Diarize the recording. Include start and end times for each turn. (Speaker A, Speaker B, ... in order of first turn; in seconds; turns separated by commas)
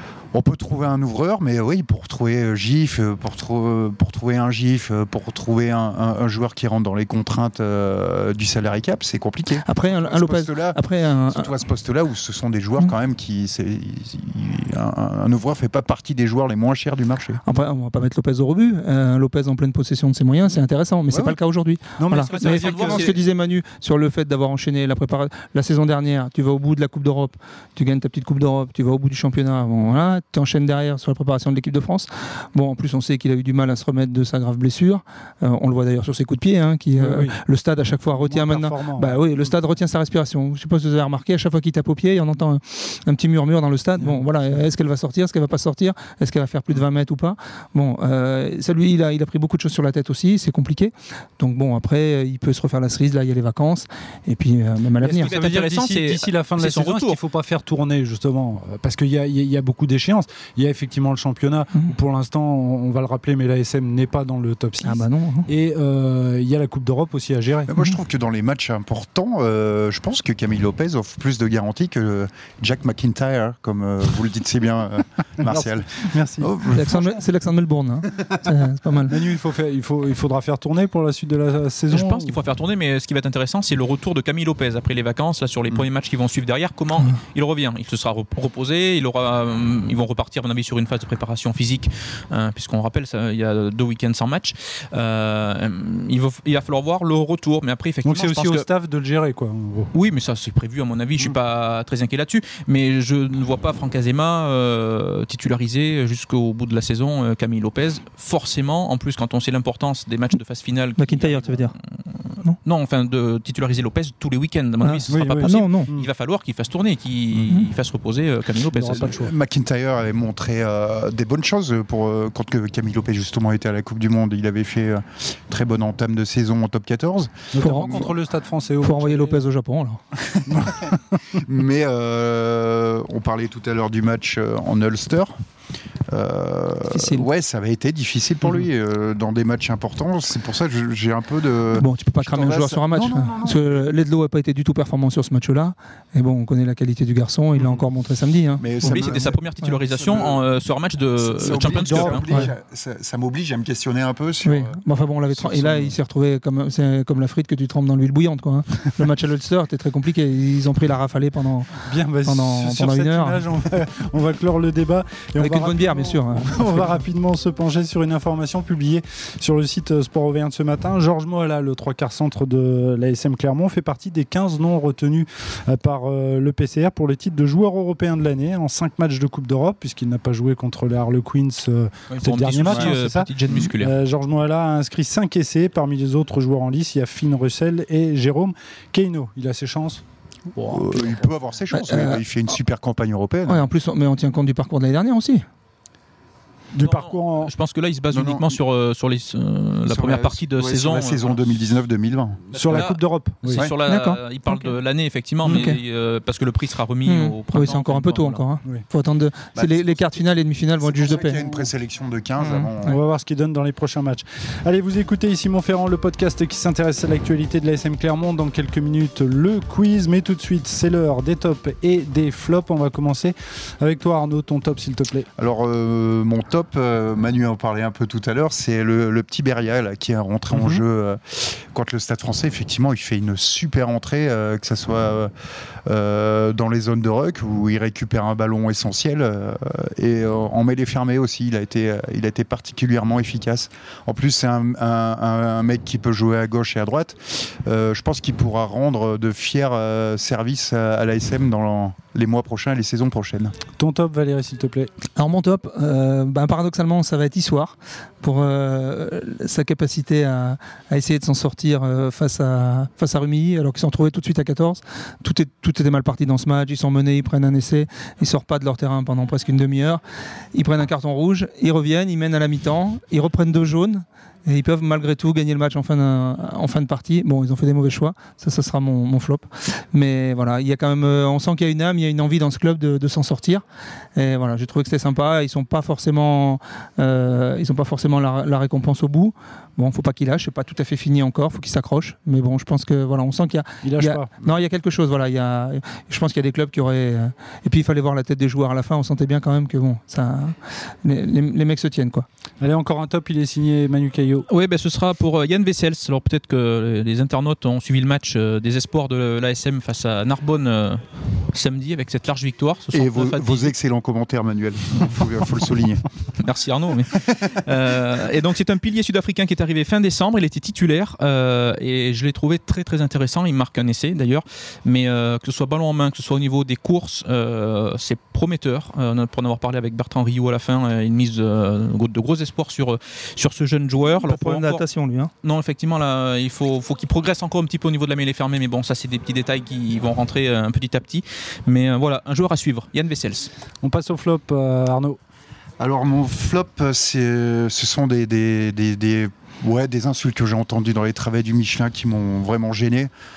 Speaker A: 0.3-17.4, Speaker B: 9.6-11.5, Speaker B: 17.4-55.3, Speaker C: 21.1-21.4, Speaker C: 22.0-23.1, Speaker D: 22.3-23.2, Speaker C: 37.0-37.4, Speaker C: 38.1-39.2, Speaker C: 55.0-67.7, Speaker D: 55.1-57.2, Speaker B: 64.8-65.5, Speaker A: 67.7-77.1, Speaker C: 75.4-76.5, Speaker B: 76.7-79.2, Speaker C: 79.1-82.4, Speaker D: 81.9-98.7, Speaker C: 98.0-99.9, Speaker D: 99.9-111.7, Speaker B: 111.0-111.7, Speaker D: 112.6-119.2, Speaker B: 114.8-115.9, Speaker C: 115.1-116.1, Speaker C: 118.7-119.3, Speaker A: 118.9-128.1, Speaker C: 127.5-129.4, Speaker B: 127.6-128.1, Speaker B: 128.8-130.0, Speaker C: 130.5-131.2, Speaker A: 130.5-130.8, Speaker A: 131.3-135.3, Speaker A: 136.1-143.8, Speaker B: 136.9-137.3, Speaker B: 141.8-149.1, Speaker A: 148.6-150.4, Speaker D: 148.8-152.3, Speaker A: 151.2-155.9, Speaker C: 151.4-152.5, Speaker B: 154.4-163.4, Speaker C: 161.8-190.0, Speaker B: 165.4-167.0, Speaker D: 182.1-183.9, Speaker A: 190.6-193.6, Speaker D: 190.7-191.1, Speaker B: 191.7-192.2, Speaker B: 193.5-195.4, Speaker C: 196.7-197.5, Speaker D: 196.8-201.4, Speaker A: 198.1-198.5, Speaker A: 199.8-202.4, Speaker C: 202.5-203.6, Speaker D: 202.5-208.4, Speaker B: 203.7-204.7, Speaker B: 205.4-205.8, Speaker B: 207.1-211.4, Speaker A: 209.5-210.2, Speaker A: 210.8-213.0, Speaker C: 211.3-211.7, Speaker B: 212.4-212.9, Speaker C: 212.8-225.3, Speaker A: 225.4-235.3, Speaker C: 230.5-230.8, Speaker A: 235.8-253.5, Speaker C: 253.8-254.9, Speaker B: 255.1-270.0, Speaker B: 270.5-283.6, Speaker B: 284.1-302.2, Speaker C: 293.8-294.3, Speaker C: 302.6-304.4, Speaker D: 304.5-313.7, Speaker A: 312.9-316.1, Speaker D: 316.4-334.8, Speaker B: 334.2-335.3, Speaker D: 335.4-343.5, Speaker C: 343.8-345.2, Speaker A: 345.8-353.1